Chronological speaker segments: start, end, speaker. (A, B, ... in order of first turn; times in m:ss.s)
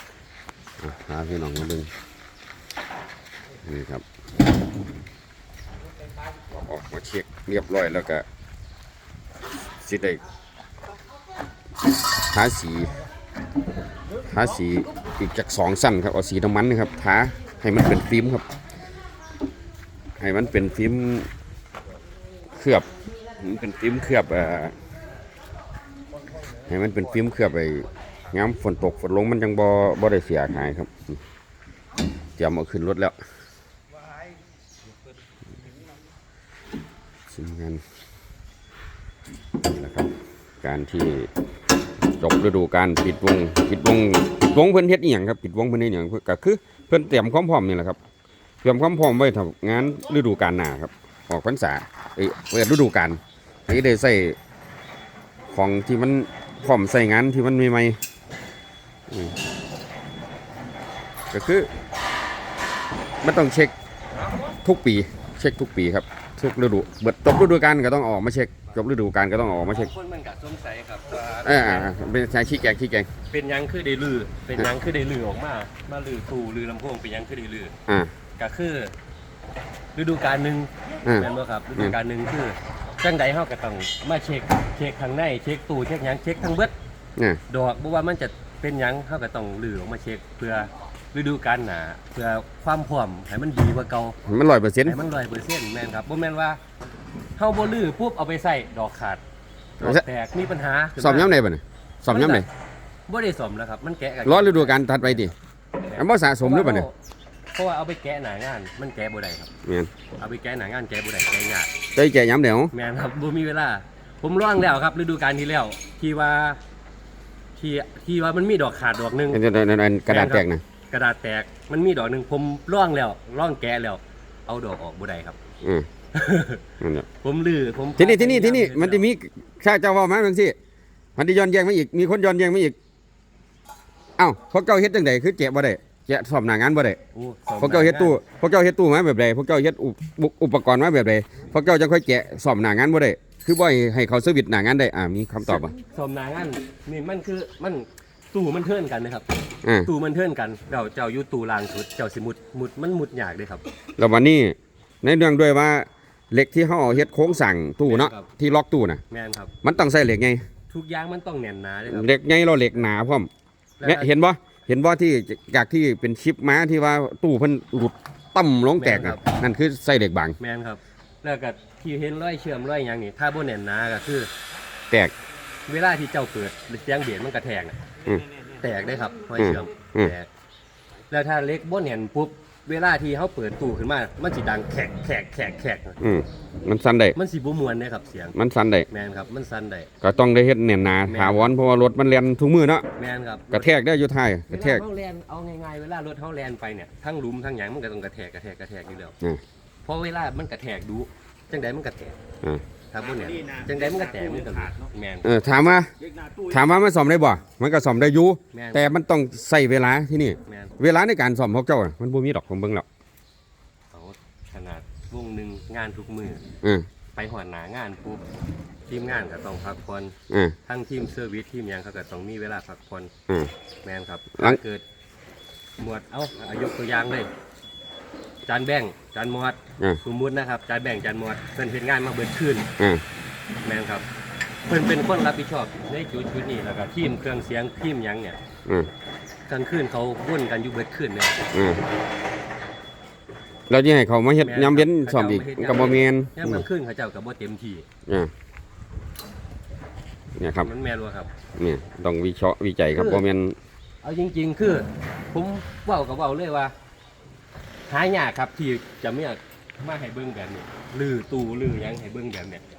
0:00.8-0:01.9 A
0:03.6-0:04.0 A
0:06.5-0:08.2 A
0:09.8-0:10.2 A
0:12.2-0:13.0 A
0:14.3-0:18.5 A
0:20.2-0:21.3 A
0:22.6-0:22.9 A
0:23.4-0:24.8 A
0:26.7-0:31.2 A
0:32.4-0:33.2 A
0:37.3-0:37.8 A
0:39.6-0:41.3 A
0:42.2-0:48.0 A
0:48.6-0:54.4 A
0:55.5-0:58.0 A
0:59.1-0:59.4 A
1:01.3-1:01.7 A
1:03.2-1:03.7 A
1:04.6-1:09.9 A
1:09.7-1:11.9 B
1:11.4-1:13.1 A
1:13.3-1:17.7 B
1:18.4-1:19.0 B
1:20.0-1:26.7 B
1:21.0-1:22.0 A
1:27.5-1:34.2 B
1:34.3-1:35.0 A
1:34.9-1:36.6 B
1:37.4-1:39.2 B
1:39.8-1:41.3 B
1:41.0-1:42.5 A
1:42.1-1:42.5 B
1:43.1-1:45.3 B
1:44.2-1:45.3 A
1:45.9-1:47.0 B
1:46.0-1:46.9 A
1:47.5-1:49.5 B
1:49.6-1:49.9 A
1:50.2-1:51.7 B
1:52.0-1:52.7 A
1:52.7-1:56.6 B
1:57.6-1:59.4 B
1:59.3-2:00.6 A
2:00.1-2:05.4 B
2:06.1-2:06.6 B
2:06.8-2:07.1 A
2:07.2-2:09.1 B
2:08.0-2:10.6 A
2:11.2-2:12.8 A
2:14.2-2:17.0 A
2:17.1-2:18.2 B
2:17.6-2:25.8 A
2:25.5-2:29.3 B
2:29.6-2:29.9 A
2:29.8-2:33.6 B
2:34.0-2:39.0 A
2:37.9-2:38.3 B
2:39.1-2:39.5 B
2:39.6-2:40.4 A
2:40.7-2:42.1 B
2:41.9-2:43.3 A
2:43.8-2:44.1 B
2:43.8-2:50.4 A
2:48.8-2:49.2 B
2:50.4-2:54.3 B
2:55.7-2:57.8 B
2:58.5-3:00.3 B
2:59.4-3:00.1 A
3:01.1-3:06.0 B
3:06.0-3:07.2 A
3:07.2-3:08.4 B
3:08.4-3:08.9 A
3:08.9-3:09.9 B
3:10.0-3:12.9 A
3:11.1-3:11.6 B
3:13.0-3:13.7 B
3:13.5-3:14.8 A
3:14.5-3:19.2 B
3:19.8-3:22.2 B
3:22.9-3:25.4 B
3:25.2-3:25.9 A
3:26.4-3:32.8 A
3:28.5-3:28.9 B
3:30.5-3:30.8 B
3:33.9-3:36.4 B
3:37.2-3:38.2 B
3:38.9-3:40.2 B
3:40.7-3:43.1 B
3:43.8-3:44.8 B
3:45.8-3:47.3 B
3:48.5-3:52.7 B
3:53.6-3:54.1 B
3:54.7-3:58.4 B
3:59.5-4:01.5 B
4:01.5-4:01.8 A
4:03.7-4:06.6 A
4:04.4-4:07.9 B
4:10.4-4:10.7 A
4:10.6-4:11.3 B
4:11.6-4:13.6 A
4:12.9-4:13.2 B
4:14.0-4:16.7 B
4:17.9-4:22.6 B